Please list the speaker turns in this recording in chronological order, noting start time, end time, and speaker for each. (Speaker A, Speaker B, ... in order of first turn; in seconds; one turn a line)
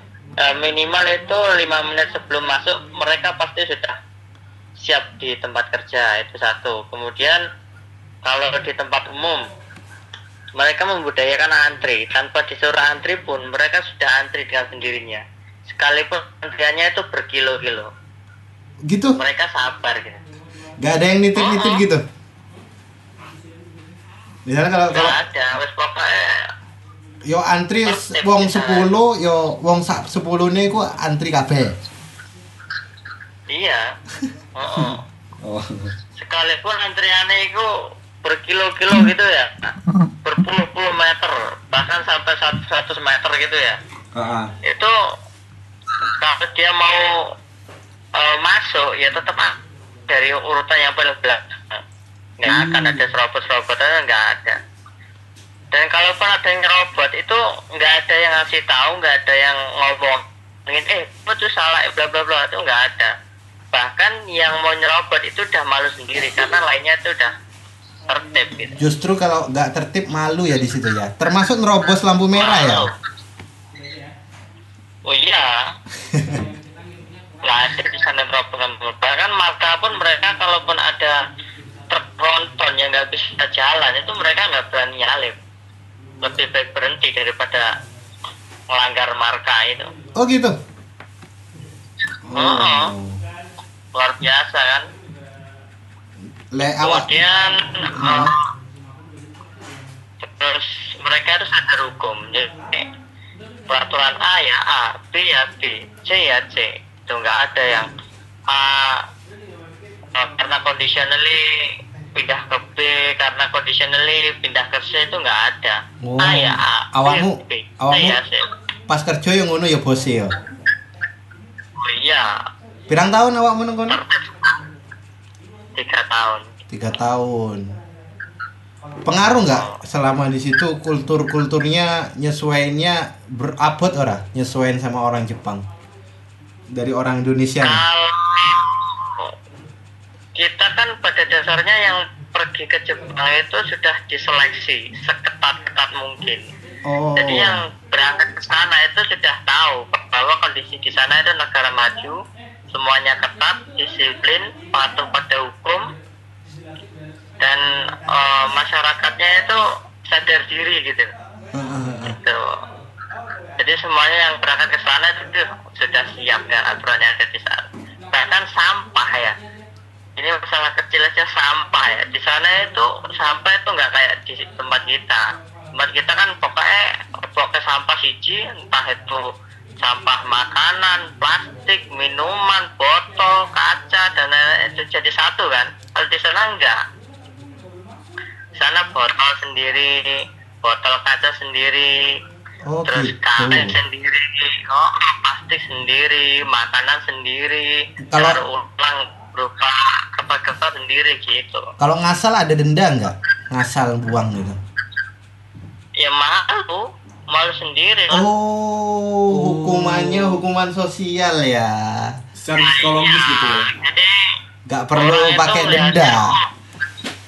Speaker A: 0.4-4.0
Speaker A: 4.8-7.4
Speaker A: 8.2-9.4
Speaker A: 10.6-17.9
Speaker B: 18.9-19.2
Speaker A: 19.2-20.2
Speaker B: 20.8-22.0
Speaker A: 21.4-21.8
Speaker B: 24.5-25.2
Speaker A: 24.9-26.5
Speaker B: 27.2-31.7
Speaker A: 27.9-28.9
Speaker A: 33.5-33.8
Speaker B: 34.2-35.9
Speaker A: 34.5-35.0
Speaker A: 36.2-39.7
Speaker A: 40.2-43.8
Speaker B: 44.1-44.5
Speaker A: 44.6-44.9
Speaker A: 46.0-47.3
Speaker A: 48.1-49.5
Speaker A: 50.1-51.8
Speaker A: 52.4-54.6
Speaker C: 52.5-53.0
Speaker A: 55.7-63.1
Speaker A: 63.7-67.3
Speaker A: 68.1-68.8
Speaker B: 68.8-72.9
Speaker A: 72.3-72.9
Speaker A: 75.0-75.7
Speaker B: 76.0-76.5
Speaker A: 77.4-81.2
Speaker A: 81.9-85.3
Speaker A: 86.2-87.7
Speaker A: 88.7-89.9
Speaker B: 90.1-90.6
Speaker B: 92.2-93.2
Speaker A: 92.3-92.9
Speaker A: 93.9-94.8
Speaker B: 96.5-97.2
Speaker A: 96.8-98.4
Speaker B: 97.9-98.3
Speaker A: 100.2-102.9
Speaker A: 103.7-107.9
Speaker A: 108.5-109.1
Speaker A: 110.1-118.5
Speaker B: 116.0-118.2
Speaker B: 118.9-120.3
Speaker A: 121.8-122.3
Speaker B: 122.9-124.0
Speaker A: 123.9-124.6
Speaker A: 125.7-126.5
Speaker B: 126.7-127.7
Speaker B: 129.0-135.6
Speaker A: 129.5-129.7
Speaker B: 136.7-137.8
Speaker A: 137.6-139.3
Speaker A: 140.3-146.4
Speaker B: 146.8-147.6
Speaker A: 147.2-152.2
Speaker A: 152.7-155.9
Speaker A: 157.4-161.1
Speaker B: 161.5-162.2
Speaker A: 162.1-162.6
Speaker A: 163.6-169.3
Speaker A: 170.2-179.3
Speaker A: 179.8-186.8
Speaker A: 188.6-192.2
Speaker B: 192.7-193.8
Speaker A: 192.9-201.7
Speaker B: 198.0-198.4
Speaker B: 201.8-204.6
Speaker A: 206.0-208.2
Speaker B: 208.1-212.2
Speaker C: 209.3-210.4
Speaker C: 212.4-213.7
Speaker A: 212.6-214.2
Speaker B: 214.7-216.3
Speaker A: 215.0-216.4